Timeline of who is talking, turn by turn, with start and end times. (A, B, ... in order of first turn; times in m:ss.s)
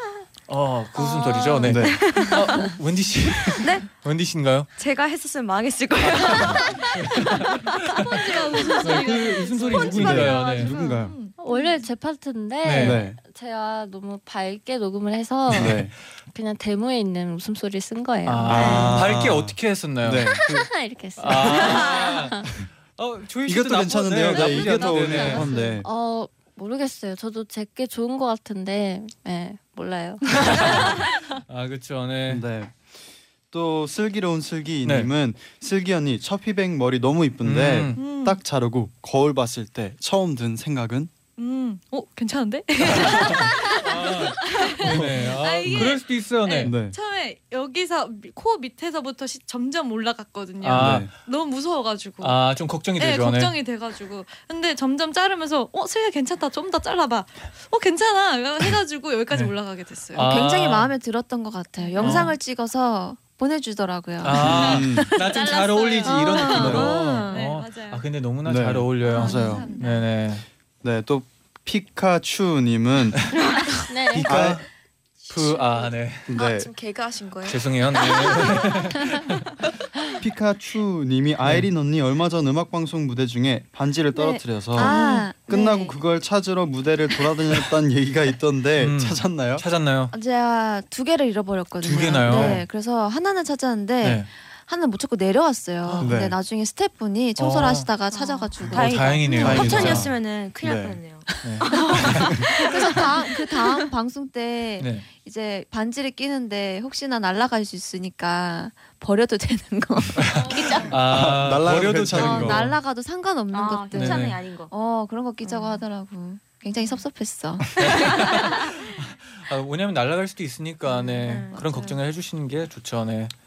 0:00.5-0:04.7 A
0:01.0-0:02.7 B
0:01.6-0:02.0 C
0:03.6-0:03.9 B
0:04.8-0:07.4 B
0:06.0-0:08.2 A
0:07.8-0:11.8 D
0:08.8-0:10.7 A
0:09.9-0:11.2 C
0:11.4-0:19.1 E
0:12.6-0:13.0 A
0:12.8-0:13.2 C
0:15.5-0:15.8 A
0:15.6-0:15.9 C
0:18.2-0:25.5 A
0:18.5-0:20.5 C
0:20.3-0:22.5 E
0:23.4-0:25.9 C
0:24.8-0:31.4 E
0:30.4-0:32.4 A
0:32.3-0:32.8 C
0:33.5-0:41.1 C
0:34.8-0:35.1 A
0:37.4-0:38.0 A
0:38.0-0:38.4 D
0:41.4-0:52.4 D
0:42.9-0:46.8 A
0:44.9-0:45.9 C
0:46.6-0:47.0 C
0:50.6-0:51.1 A
0:50.8-0:51.1 C
0:52.2-0:53.5 A
0:53.0-1:00.3 D
1:00.1-1:00.9 A
1:00.2-1:04.6 F
1:01.8-1:02.3 D
1:02.0-1:02.4 A
1:04.2-1:10.4 A
1:04.4-1:05.1 C
1:05.3-1:08.1 D
1:05.3-1:06.6 E
1:06.5-1:07.4 B
1:06.5-1:06.9 C
1:08.4-1:09.7 C
1:09.0-1:10.1 D
1:10.8-1:13.2 C
1:13.8-1:14.3 E
1:14.1-1:14.7 A
1:14.2-1:14.6 C
1:15.3-1:16.3 A
1:16.3-1:16.7 C
1:16.3-1:18.7 G
1:17.4-1:19.4 A
1:20.2-1:29.6 C
1:21.4-1:21.7 A
1:24.1-1:26.0 F
1:24.8-1:25.3 B
1:28.8-1:30.1 A
1:30.1-1:40.0 F
1:31.8-1:32.6 A
1:32.2-1:32.6 C
1:34.0-1:34.3 A
1:35.8-1:36.1 A
1:36.0-1:36.4 C
1:37.4-1:37.9 A
1:38.1-1:43.1 B
1:38.6-1:40.1 A
1:39.4-1:41.0 C
1:41.4-1:42.4 A
1:41.8-1:42.1 F
1:42.1-1:42.4 C
1:42.6-1:50.9 F
1:44.8-1:45.1 A
1:50.2-1:52.8 A
1:50.5-1:50.8 B
1:50.9-1:52.7 C
1:52.1-1:58.2 F
1:53.5-1:54.7 B
1:53.9-1:54.4 A
1:55.4-1:55.8 B
1:57.8-2:03.3 A
2:01.2-2:02.0 B
2:01.3-2:01.6 F